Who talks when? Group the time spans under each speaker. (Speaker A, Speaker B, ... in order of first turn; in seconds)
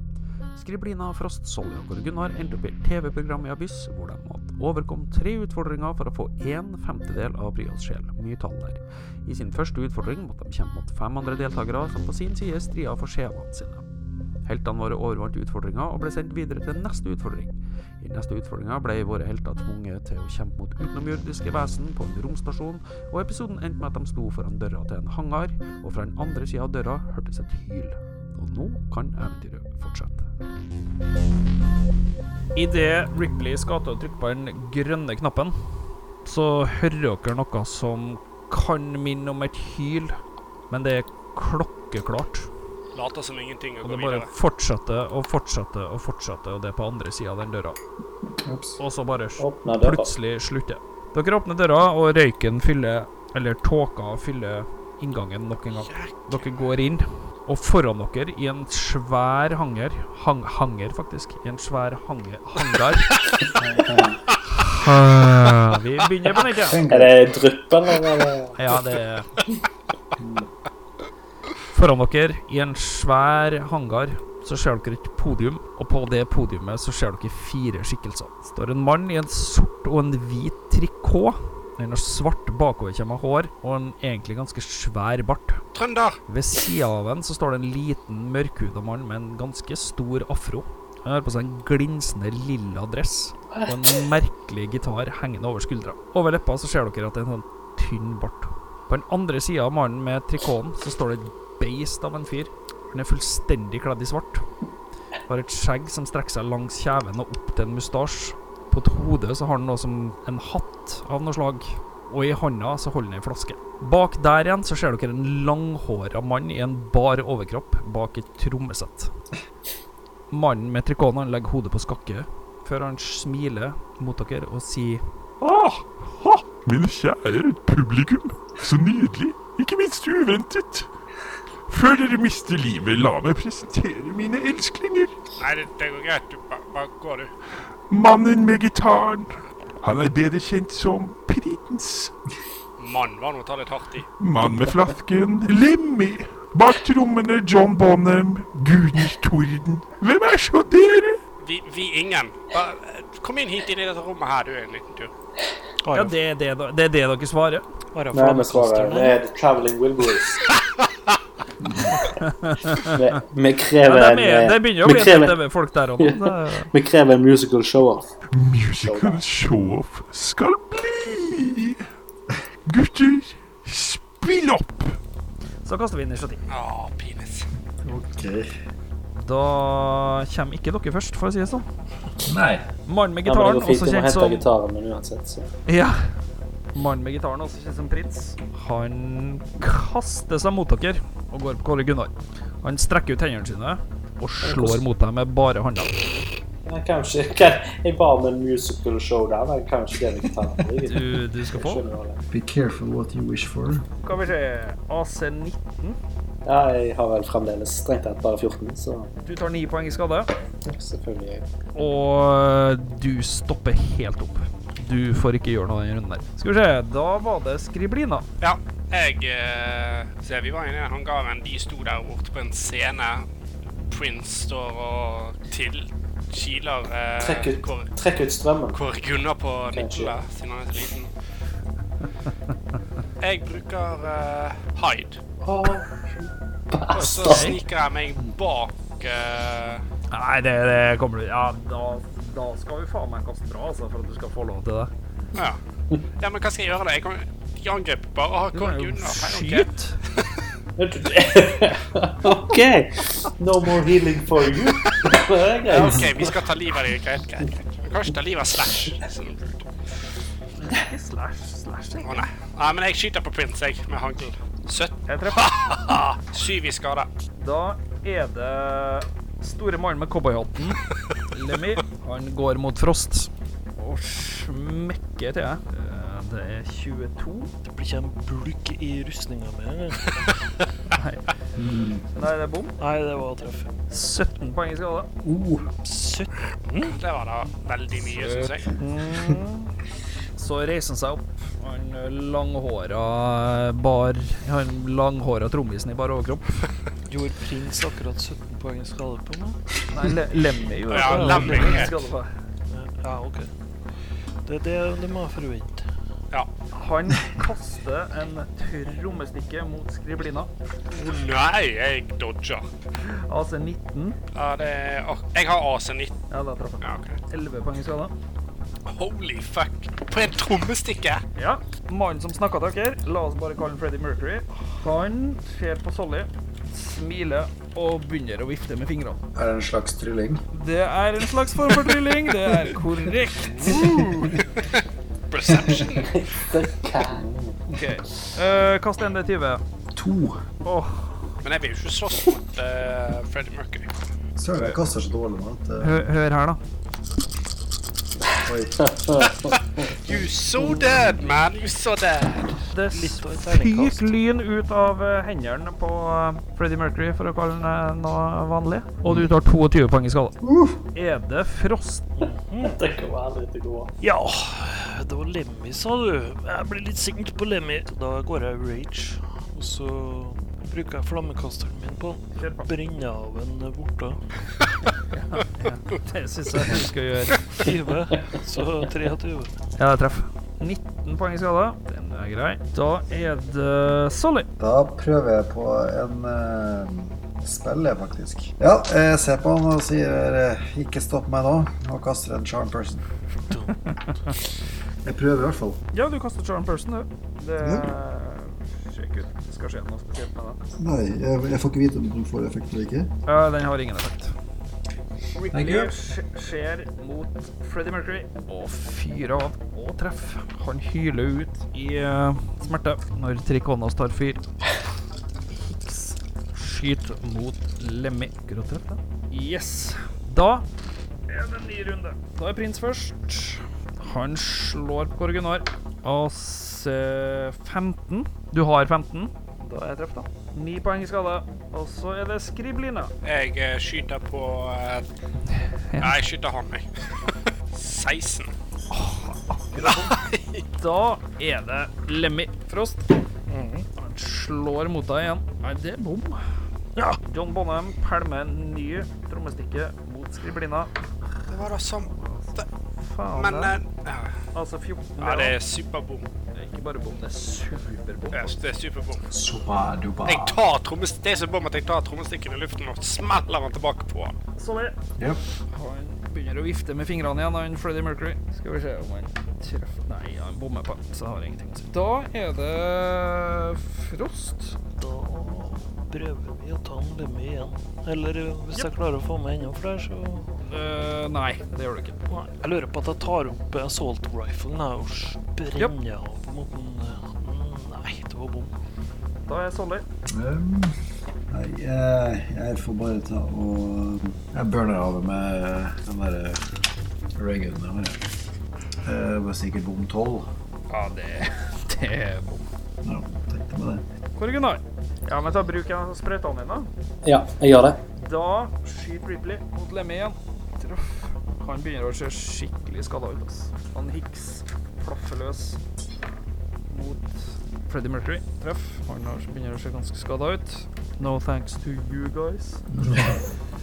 Speaker A: 0.5-13.8, 14.4-30.3
Speaker B: 32.5-35.5, 36.2-40.1, 40.7-42.5, 43.8-47.8, 48.8-63.1, 64.5-66.8, 68.5-69.3, 71.7-85.6, 86.3-104.4, 105.3-119.1, 120.3-126.4, 155.9-157.6, 162.1-163.0, 163.8-166.7, 175.6-176.4, 179.2-181.7, 182.8-184.4, 185.7-186.0, 186.7-195.9, 200.8-201.8, 204.0-206.0, 209.2-210.3, 211.7-218.2, 236.9-237.6, 240.1-244.9, 248.5-250.0, 260.6-262.3, 265.1-265.5, 267.4-270.8, 271.3-277.5, 280.9-281.3, 282.1-282.8, 283.9-285.1, 288.1-289.7, 290.4-296.6, 299.9-302.3, 306.7-310.5, 313.0-314.2, 316.3-318.1, 321.4-329.2, 330.5-333.9, 337.7-339.6, 340.6-341.3, 345.8-346.6, 352.7-360.4, 360.9-362.0, 372.4-372.7, 375.1-377.7, 379.8-384.5, 395.9-400.6, 403.2-404.3, 405.4-414.4, 415.8-420.6, 421.3-433.1, 435.9-436.2, 438.9-440.1, 440.8-443.1, 443.9-446.4, 447.2-450.9, 452.1-453.8, 454.5-455.6, 456.5-458.5, 464.6-464.9, 465.7-474.8, 480.7-482.2, 489.4-490.0, 500.9-502.7, 504.4-506.9, 508.2-515.8, 516.9-522.8
Speaker C: 42.9-44.3, 55.9-56.5, 85.7-86.2, 135.4-137.3, 142.8-144.1, 151.4-155.1, 176.5-177.5, 218.4-223.2, 223.9-227.9, 228.7-231.1, 233.2-235.2, 236.9-239.8, 246.2-250.3, 255.7-259.7, 262.0-267.1, 286.9-288.7, 300.9-301.9, 310.9-312.7, 314.3-316.1, 316.8-317.2, 318.9-321.2, 334.4-336.3, 341.4-343.9, 350.0-352.6, 433.2-435.1, 436.0-438.5, 439.8-440.6, 451.5-452.7, 453.4-454.3, 455.2-456.2, 458.3-459.2, 460.2-464.4
Speaker D: 48.4-48.8, 63.6-64.2, 66.5-67.2, 70.2-70.5, 161.7-161.9, 177.8-178.5, 182.2-182.6, 202.3-203.8, 281.6-282.0, 285.2-285.7, 329.3-330.4, 333.7-334.3, 335.5-335.8, 337.1-337.7, 339.9-340.4, 344.4-346.1, 348.4-349.3, 360.4-360.8, 384.6-393.0, 395.0-395.8, 397.6-397.9, 400.8-403.1, 405.5-405.9, 459.3-460.6, 490.3-490.9, 491.5-496.6, 497.4-498.2, 499.0-500.5, 503.0-504.0, 522.9-523.4
Speaker E: 49.4-50.1, 66.9-68.5, 93.5-94.0, 158.1-160.4, 162.8-165.4, 166.0-168.1, 168.8-169.2, 183.2-185.5, 194.4-194.8, 196.7-202.2, 206.4-209.1, 210.6-211.4, 227.2-228.8, 229.7-230.1, 235.4-237.5, 250.8-256.4, 335.9-337.2, 349.0-349.6, 362.6-363.9, 507.2-508.0
Speaker F: 126.6-130.9, 131.7-135.1, 137.9-142.1, 144.2-151.2, 168.3-171.8, 172.7-175.0
Speaker G: 155.8-156.1, 157.9-159.2, 277.6-280.1, 282.8-283.7, 285.8-287.0, 297.1-299.6, 300.9-302.0, 302.7-303.5, 304.4-305.9, 333.6-334.1, 352.8-354.1, 362.2-362.8, 364.0-374.2, 377.6-379.5, 393.5-393.8, 443.5-443.9, 474.9-480.5, 482.3-488.7